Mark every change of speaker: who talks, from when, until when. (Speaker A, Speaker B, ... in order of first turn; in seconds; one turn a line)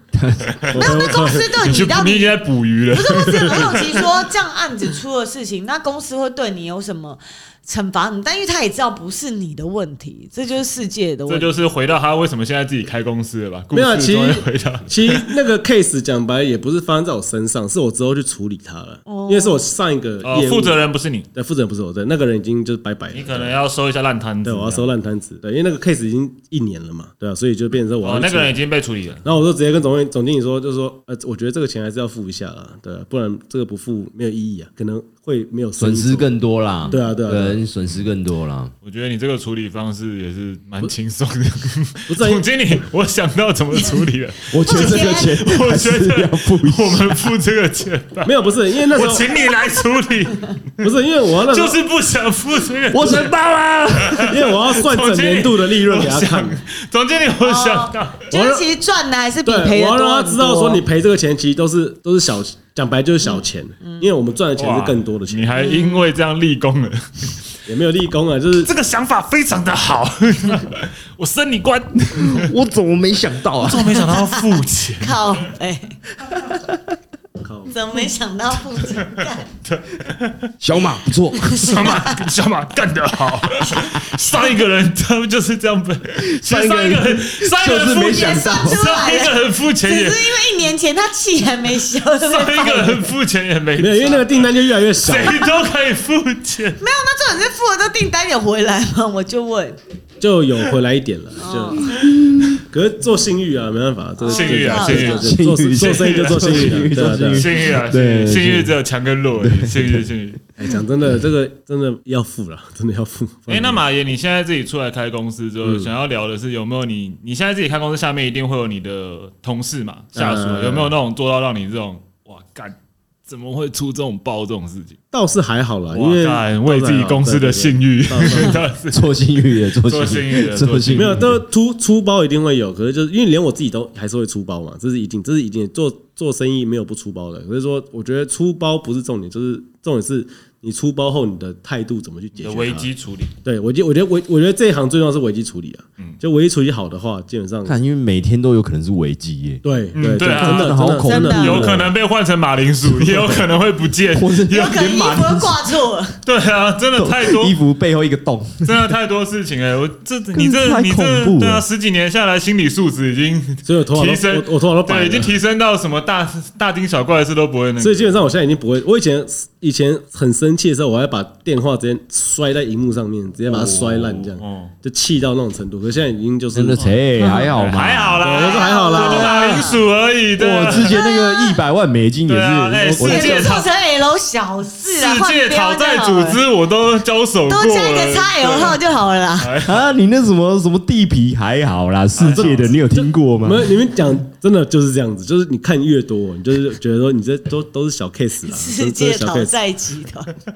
Speaker A: 0.1-0.5
Speaker B: 0.6-4.0
Speaker C: 0.7-1.6
Speaker D: 0.8-2.4
Speaker D: 2.9-11.5
Speaker B: 11.3-15.3
Speaker C: 13.7-20.8
Speaker D: 19.1-19.6
Speaker B: 20.2-21.3
Speaker C: 21.3-23.6
Speaker B: 23.1-24.9
Speaker C: 24.4-28.6
Speaker B: 28.0-29.2
Speaker C: 29.2-36.3
Speaker A: 35.8-38.7
Speaker D: 36.8-37.2
Speaker C: 36.9-37.6
Speaker B: 38.8-50.9
Speaker C: 42.1-42.4
Speaker A: 44.5-47.3
Speaker D: 44.6-45.4
Speaker C: 48.2-49.3
Speaker C: 50.8-51.8
Speaker B: 51.4-53.3
Speaker A: 52.9-54.4
Speaker B: 53.9-58.3
Speaker C: 54.3-56.6
Speaker D: 57.4-60.8
Speaker C: 58.3-58.7
Speaker C: 59.5-65.5
Speaker D: 63.2-64.1
Speaker B: 64.6-67.3
Speaker D: 65.6-66.0
Speaker C: 67.7-68.7
Speaker B: 68.7-72.5
Speaker A: 72.2-74.1
Speaker B: 73.6-75.5
Speaker D: 74.2-74.4
Speaker D: 75.0-76.0
Speaker C: 77.4-77.8
Speaker D: 77.7-79.5
Speaker B: 79.6-80.5
Speaker A: 80.6-81.7
Speaker D: 81.4-82.2
Speaker B: 81.4-90.4
Speaker A: 86.2-88.8
Speaker D: 88.0-93.1
Speaker B: 92.2-96.8
Speaker C: 93.8-95.5
Speaker D: 96.8-99.8
Speaker C: 100.2-102.0
Speaker D: 101.4-101.9
Speaker A: 102.0-102.6
Speaker C: 102.7-107.5
Speaker D: 104.2-105.3
Speaker B: 104.2-110.4
Speaker A: 105.2-108.7
Speaker A: 109.4-110.1
Speaker C: 110.6-113.8
Speaker B: 113.5-122.8
Speaker C: 115.6-115.9
Speaker C: 120.1-120.9
Speaker B: 123.3-125.0
Speaker C: 125.1-128.7
Speaker B: 125.9-129.0
Speaker A: 128.9-131.4
Speaker B: 129.7-131.3
Speaker C: 130.9-142.9
Speaker B: 142.4-143.3
Speaker C: 143.4-147.8
Speaker A: 147.7-149.6
Speaker C: 149.6-151.9
Speaker B: 149.9-154.9
Speaker A: 150.2-151.8
Speaker D: 151.0-151.6
Speaker A: 154.1-155.6
Speaker D: 154.5-156.2
Speaker B: 156.2-157.6
Speaker A: 157.0-158.9
Speaker B: 158.6-168.2
Speaker A: 160.3-161.7
Speaker C: 163.7-165.3
Speaker C: 167.8-176.9
Speaker B: 173.5-174.7
Speaker A: 176.5-178.3
Speaker D: 177.2-177.5
Speaker B: 177.6-181.0
Speaker C: 178.2-179.6
Speaker D: 178.2-179.8
Speaker A: 180.4-183.6
Speaker D: 180.7-181.6
Speaker B: 182.3-183.7
Speaker C: 182.8-183.1
Speaker D: 183.0-186.4
Speaker B: 184.9-188.8
Speaker D: 187.5-189.5
Speaker B: 189.4-189.8
Speaker A: 189.6-193.8
Speaker B: 192.2-192.8
Speaker C: 192.3-199.5
Speaker D: 198.4-200.3